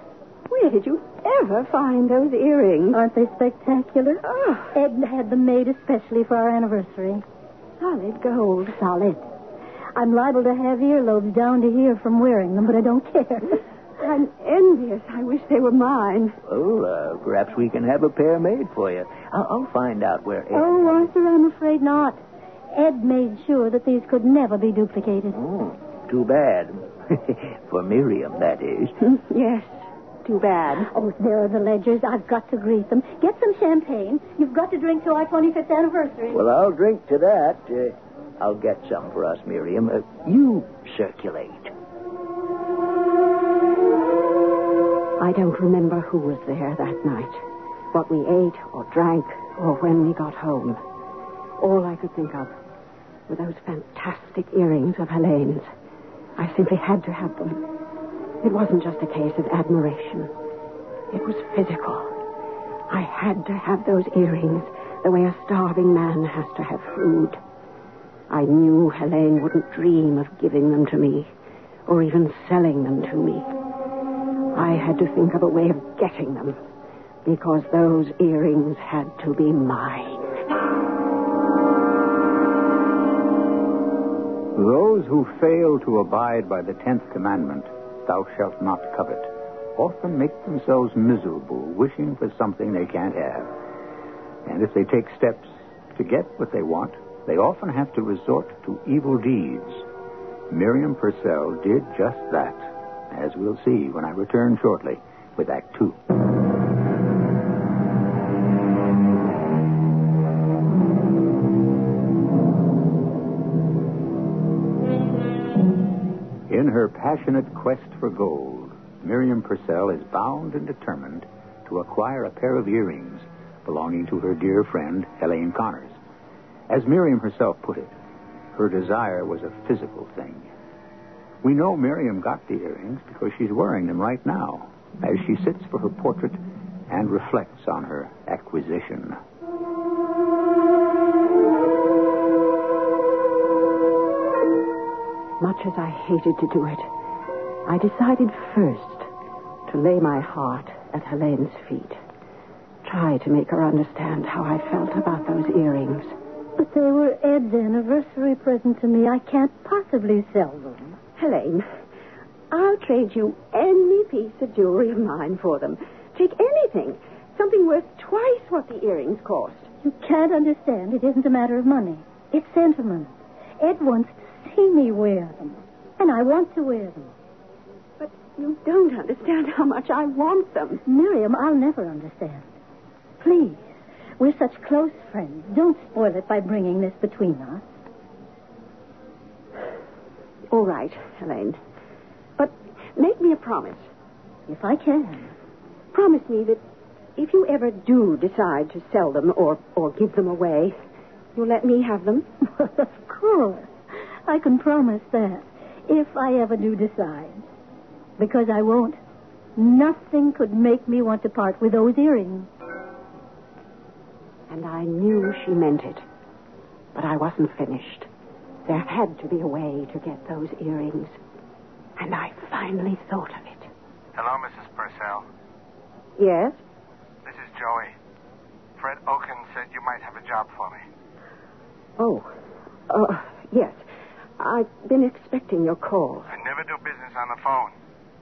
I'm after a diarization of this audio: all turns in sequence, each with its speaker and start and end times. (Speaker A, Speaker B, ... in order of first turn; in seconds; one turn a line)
Speaker A: 0.5-3.0
Speaker B: 2.9-7.2
Speaker A: 4.2-4.7
Speaker A: 7.8-9.2
Speaker B: 10.0-13.6
Speaker A: 14.0-16.4
Speaker C: 16.5-21.1
Speaker B: 20.5-22.2
Speaker B: 22.7-25.4
Speaker C: 25.4-29.0
Speaker A: 29.0-30.9
Speaker B: 30.9-36.4
Speaker C: 36.3-41.7
Speaker A: 45.2-50.8
Speaker A: 51.6-52.5
Speaker A: 53.3-55.7
Speaker A: 56.4-57.7
Speaker A: 58.4-60.3
Speaker A: 61.1-62.1
Speaker A: 62.9-67.4
Speaker A: 68.3-71.3
Speaker A: 71.9-73.5
Speaker A: 74.5-76.6
Speaker A: 77.2-80.5
Speaker D: 84.5-93.5
Speaker D: 94.5-99.9
Speaker D: 100.5-106.0
Speaker D: 116.5-126.0
Speaker D: 126.7-127.9
Speaker D: 128.5-130.5
Speaker D: 131.4-139.2
Speaker A: 145.4-146.9
Speaker A: 147.7-149.1
Speaker A: 149.7-152.0
Speaker A: 152.8-156.1
Speaker B: 156.6-160.9
Speaker A: 161.2-161.7
Speaker A: 162.5-169.7
Speaker B: 169.8-177.1
Speaker A: 178.0-180.8
Speaker B: 180.9-182.4
Speaker B: 183.2-183.7
Speaker B: 184.2-187.6
Speaker A: 190.5-191.6
Speaker A: 192.4-193.9
Speaker B: 194.5-195.3
Speaker A: 195.9-196.6
Speaker A: 197.2-200.8
Speaker A: 201.3-202.3
Speaker B: 202.6-203.7
Speaker B: 204.3-207.4
Speaker B: 208.2-209.0
Speaker B: 209.6-212.5
Speaker A: 214.5-216.0
Speaker A: 216.9-218.1
Speaker A: 218.7-221.2
Speaker A: 222.0-223.7
Speaker E: 224.2-225.2
Speaker A: 226.2-226.6
Speaker E: 227.2-227.9
Speaker E: 228.8-230.8
Speaker A: 232.0-232.3
Speaker A: 232.9-233.8
Speaker A: 234.4-236.3
Speaker E: 236.3-237.7